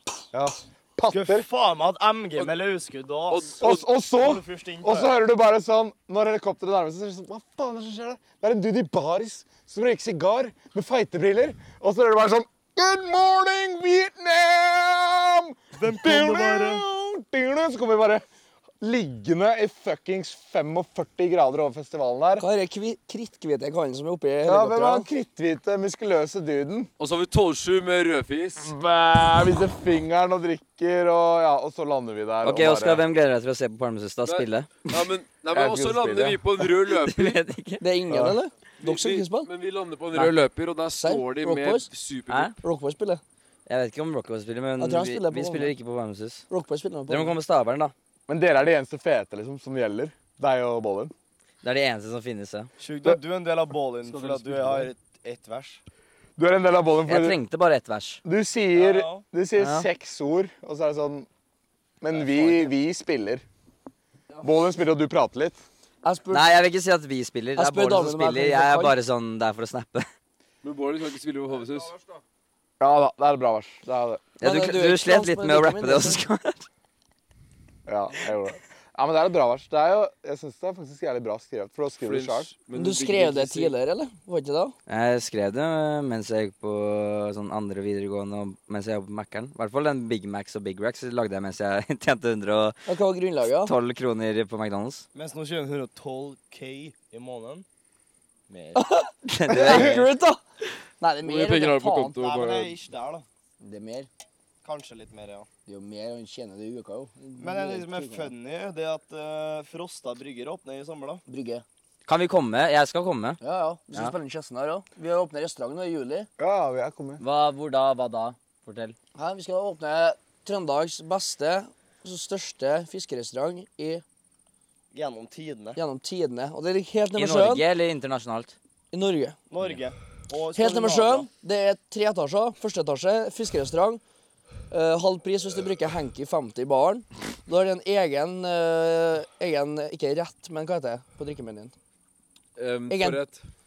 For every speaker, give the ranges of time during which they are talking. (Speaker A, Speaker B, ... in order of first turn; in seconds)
Speaker A: 0.3-1.4, 3.6-18.2, 18.8-22.4, 24.4-26.9, 28.6-33.0, 35.5-36.4, 38.1-38.4, 48.3-51.1, 56.4-57.4, 58.2-61.3, 62.0-63.5, 64.4-65.6, 72.8-74.3, 77.9-82.5, 116.4-117.2
Speaker B: 1.1-5.1, 15.8-16.8, 52.8-55.8, 58.8-59.2, 62.2-62.5, 95.1-97.7, 98.5-98.8, 102.2-103.2, 104.6-105.5, 107.4-111.2, 124.9-125.8, 129.5-131.3
Speaker C: 3.3-3.9, 27.0-28.7, 34.2-37.4, 38.8-42.5, 54.0-54.9, 70.6-72.0, 82.0-83.8, 101.2-102.8, 142.6-143.4
Speaker D: 22.4-25.1, 37.8-39.5, 41.0-41.9, 42.6-43.2, 44.8-45.7, 46.5-47.4, 66.0-66.5, 67.6-69.0, 74.4-76.3, 82.8-84.8, 92.9-93.7, 98.8-100.4, 101.0-102.2, 103.6-104.1, 105.7-108.3, 111.3-111.6, 113.4-116.3, 119.2-124.0, 125.8-127.7, 128.9-129.4, 130.6-134.0, 134.7-141.7, 142.9-143.2
Speaker E: 32.4-35.0, 36.9-37.9, 42.3-42.5, 43.7-46.5, 47.1-47.9, 51.6-52.7, 57.1-58.2, 59.6-59.9, 66.3-70.1, 74.4-76.7, 84.9-92.9, 93.5-95.0, 99.3-100.1, 112.1-113.4, 117.2-119.0, 127.2-128.6